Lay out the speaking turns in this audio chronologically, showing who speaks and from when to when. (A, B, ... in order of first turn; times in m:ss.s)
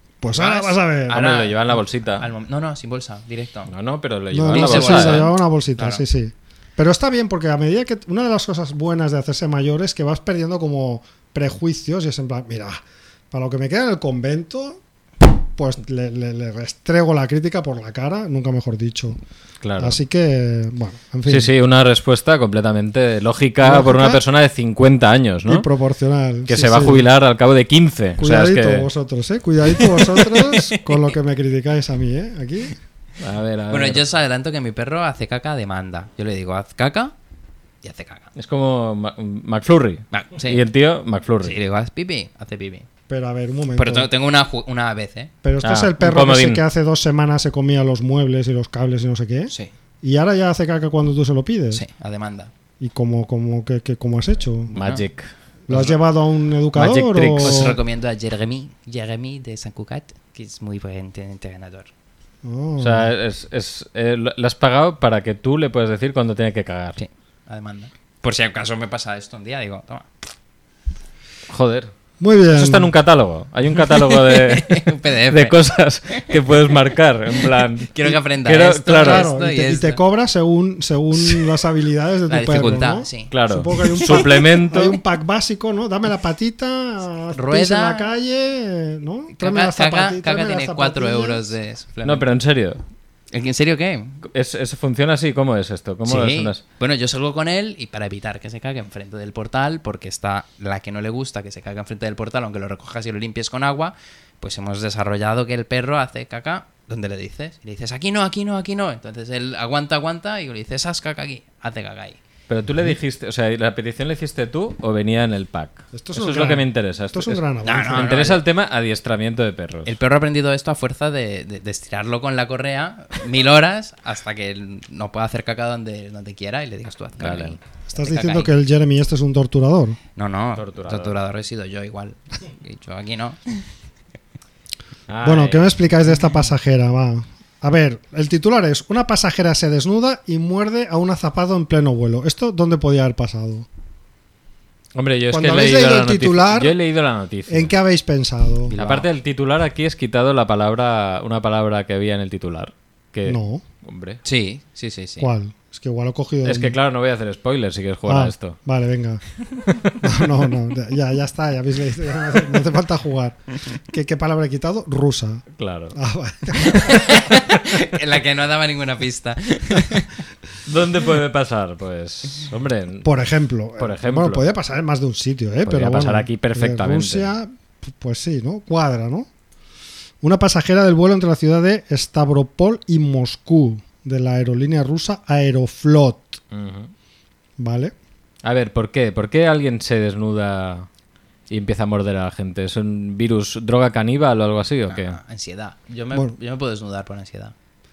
0:00.2-0:01.2 A
0:00.3-0:03.7 B
0:01.1-0:02.2 C
0:03.7-0:05.3 C
0:04.3-0:19.2 A
0:04.5-0:06.0 B
0:19.6-0:20.0 C
0:19.8-0:21.5 A
0:21.2-0:25.7 C
0:23.6-0:24.2 A
0:25.4-0:27.1 A
0:26.5-0:28.9 C
0:28.2-0:32.8 A
0:30.4-0:31.0 B
0:33.2-0:34.0 C
0:33.7-0:37.1 B
0:37.8-0:38.3 B
0:38.3-0:41.6 C
0:40.1-0:40.6 B
0:41.4-0:42.9 B
0:43.1-0:44.1 A
0:43.8-0:45.3 B
0:45.4-0:51.8 A
0:45.6-0:46.6 C
0:51.7-0:52.5 B
0:52.8-0:54.7 A
0:54.7-0:55.0 B
0:54.8-0:56.0 C
0:55.7-0:57.8 A
0:56.7-0:57.7 C
0:57.4-1:01.9 B
1:02.4-1:03.1 A
1:02.8-1:07.0 C
1:07.0-1:10.1 B
1:11.5-1:11.9 C
1:12.2-1:12.9 A
1:12.5-1:19.3 C
1:13.9-1:16.3 B
1:17.6-1:20.0 B
1:18.9-1:31.5 A
1:21.2-1:21.5 B
1:22.3-1:24.4 B
1:23.3-1:25.0 C
1:27.3-1:28.1 B
1:29.3-1:32.3 B
1:32.0-1:32.8 C
1:33.3-1:34.2 B
1:34.2-1:36.6 C
1:36.0-1:52.2 B
1:52.5-2:00.0 C
1:55.9-1:58.1 A
1:57.6-1:58.4 B
1:59.8-2:08.5 B
2:07.2-2:07.6 C
2:07.9-2:10.0 A
2:10.2-2:13.6 B
2:10.6-2:11.1 C
2:15.1-2:15.8 C
2:15.2-2:23.6 A
2:24.9-2:27.7 C
2:25.3-2:26.8 A
2:27.5-2:28.8 A
2:28.7-2:29.1 B
2:28.8-2:34.2 C
2:33.2-2:33.6 A
2:34.2-2:35.3 B
2:35.2-2:36.8 A
2:36.4-2:38.6 C
2:38.1-2:39.2 A
2:40.0-2:47.2 A
2:45.5-2:46.0 C
2:46.6-2:50.1 B
2:50.6-2:53.1 C
2:53.0-2:59.3 A
2:53.8-2:54.5 C
2:55.6-2:57.3 C
3:00.2-3:06.4 A
3:06.5-3:06.9 C
3:07.6-3:07.9 A
3:08.4-3:10.9 C
3:11.5-3:15.2 C
3:14.9-3:17.5 B